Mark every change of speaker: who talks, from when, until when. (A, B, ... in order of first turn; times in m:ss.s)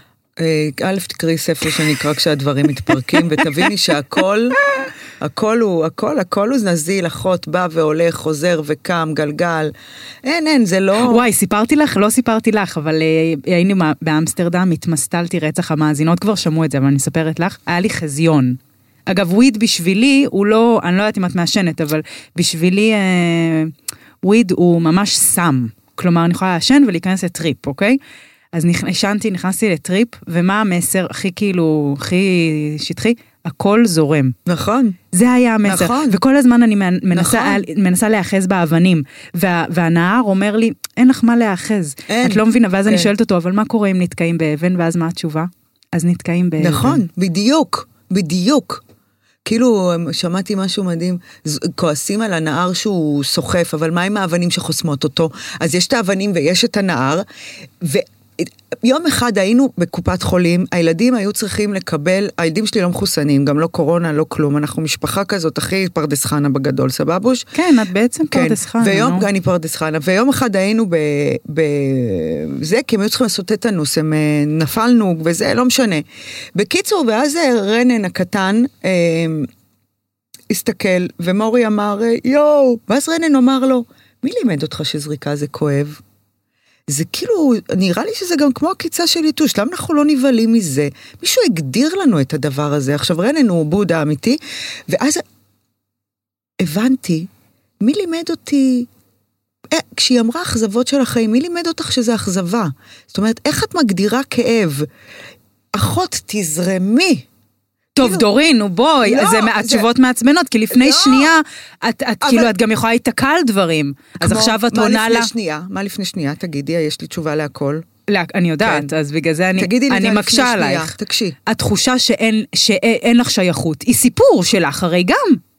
0:00.4-0:04.6 A
0:05.2-0:09.7 A
0:10.2-0:11.3 A
0:11.0-0:28.0 B
0:28.5-0:34.4 B
0:34.4-0:35.0 A
0:35.1-0:47.0 B
0:35.6-0:36.2 A
0:37.1-0:37.6 A
0:42.1-0:43.1 A
0:46.6-0:48.8 A
0:49.4-0:57.2 A
0:57.8-1:07.5 A
1:07.5-1:09.3 B
1:08.3-1:19.5 A
1:20.5-1:26.0 A
1:26.9-1:35.2 A
1:36.6-1:37.3 A
1:37.8-1:38.9 A
1:39.7-1:44.9 A
1:45.7-1:47.2 A
1:48.0-1:48.3 A
1:48.0-1:55.3 B
1:49.0-1:49.9 A
1:50.7-1:51.3 A
1:52.2-1:52.5 A
1:54.2-1:57.9 A
1:58.1-2:00.9 B
1:58.6-1:58.9 A
1:59.6-2:01.4 A
2:01.4-2:05.4 B